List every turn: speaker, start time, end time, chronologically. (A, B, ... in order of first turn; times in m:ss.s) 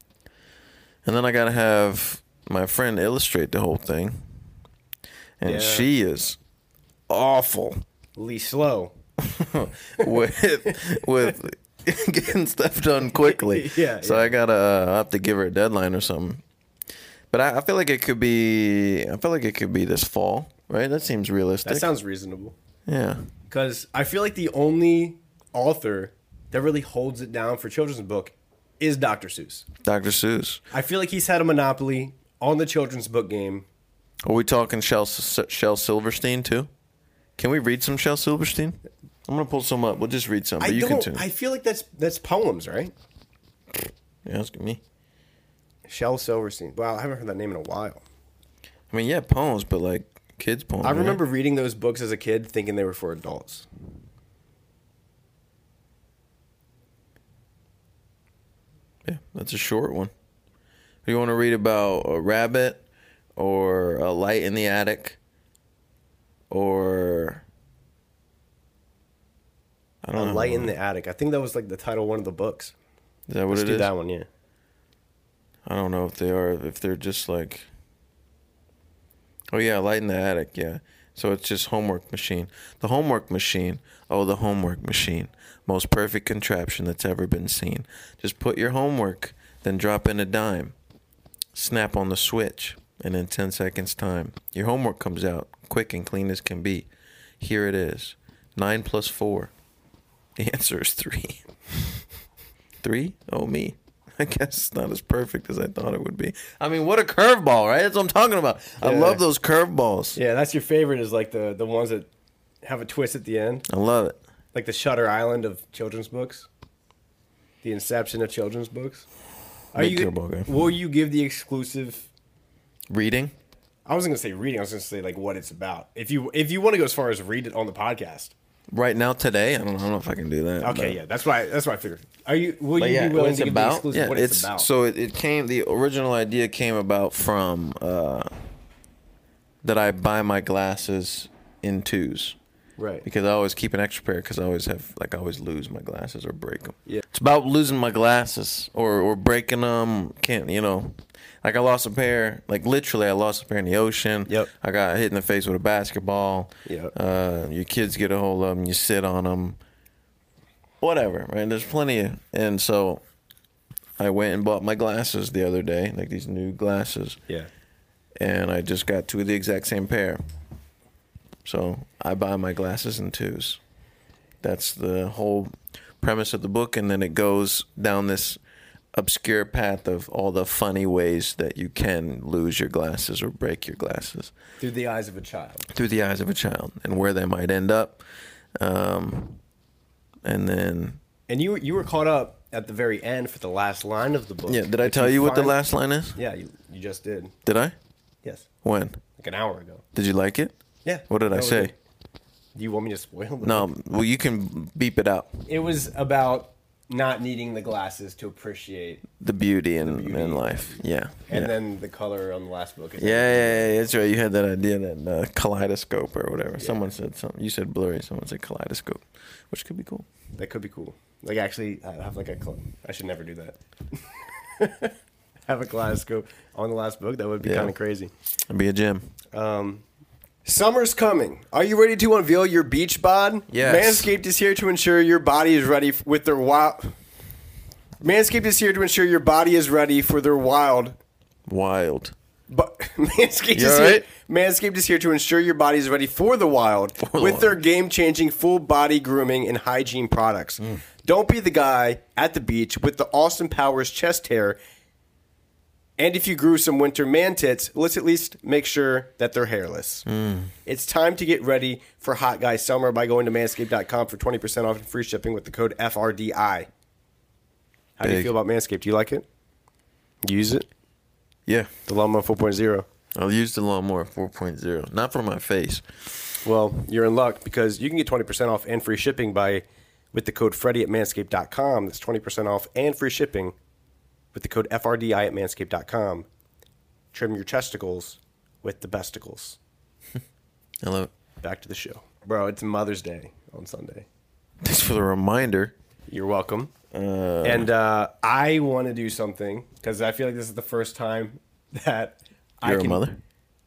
0:01.0-0:04.2 A
0:05.4-0:06.4 A
0:05.4-0:05.9 B
0:07.1-0:07.8 A
0:08.2-0:08.9 B
0:09.2-0:16.4 A
0:13.2-0:14.4 B
0:17.3-0:21.9 A
0:21.6-0:22.5 B
0:22.8-0:23.2 A
0:23.5-0:29.6 B
0:29.8-0:30.6 A
0:30.7-0:33.6 B
0:34.2-0:36.7 A
0:37.4-0:41.2 A
0:40.6-0:42.9 B
0:43.8-0:44.8 A
0:45.9-0:48.0 B
0:48.9-0:51.2 A
0:50.8-0:53.7 B
0:59.0-1:00.1 A
1:01.0-1:02.8 A
1:03.4-1:05.2 A
1:06.5-1:07.4 A
1:10.0-1:10.7 A
1:10.2-1:12.7 B
1:13.3-1:13.9 A
1:13.5-1:14.3 B
1:15.6-1:17.7 A
1:19.5-1:30.7 A
1:31.5-1:36.9 A
1:37.4-1:39.5 A
1:40.4-1:41.4 A
1:42.8-1:50.2 A
1:48.8-1:49.2 B
1:50.2-1:52.1 B
1:52.6-1:53.6 B
1:53.7-1:54.2 A
1:54.5-1:56.5 B
1:57.6-1:59.0 B
1:59.7-2:02.1 B
1:59.7-2:00.5 A
2:02.9-2:03.3 A
2:03.8-2:08.3 B
2:08.7-2:11.0 A
2:10.6-2:14.7 B
2:12.8-2:18.3 A
2:19.6-2:22.4 A
2:22.8-2:23.0 B
2:23.0-2:39.6 A
2:36.6-2:36.9 B
2:40.8-2:43.0 A
2:44.0-2:47.2 A
2:48.2-2:50.2 A
2:51.4-2:53.6 A
2:54.4-2:58.4 A
2:58.9-3:04.3 A
3:04.6-3:05.6 B
3:05.7-3:08.0 A
3:08.6-3:09.4 A
3:10.2-3:11.0 A
3:11.3-3:15.6 B
3:14.5-3:16.2 A
3:16.2-3:17.3 B
3:17.4-3:17.7 A
3:18.6-3:19.0 A
3:19.2-3:19.8 B
3:19.9-3:20.5 A
3:20.8-3:21.7 B
3:21.1-3:21.7 A
3:22.5-3:23.7 B
3:23.4-3:25.4 A
3:25.5-3:29.0 B
3:29.2-3:31.5 A
3:29.8-3:33.7 B
3:33.0-3:40.1 A
3:36.6-3:36.8 B
3:40.4-3:45.0 B
3:45.5-3:48.1 B
3:47.4-3:47.7 A
3:48.5-3:49.1 A
3:49.3-3:49.8 B
3:50.4-3:56.9 B
3:53.5-3:54.1 A
3:58.0-4:01.0 B
4:01.5-4:02.1 A
4:02.5-4:14.6 B
4:03.5-4:04.0 A
4:07.0-4:07.6 A
4:16.0-4:20.0 B
4:20.0-4:20.5 A
4:20.6-4:26.7 B
4:28.0-4:29.2 B
4:28.0-4:28.3 A
4:30.2-4:30.7 B
4:31.5-4:31.7 A
4:31.9-4:32.8 B
4:33.1-4:36.3 A
4:36.4-4:43.6 B
4:44.3-4:46.3 B
4:47.1-4:49.6 B
4:50.8-4:51.1 A
4:51.4-4:54.0 B
4:54.6-4:55.7 A
4:56.1-4:56.7 B
4:56.9-4:57.7 A
4:57.4-5:03.0 B
5:02.6-5:03.2 A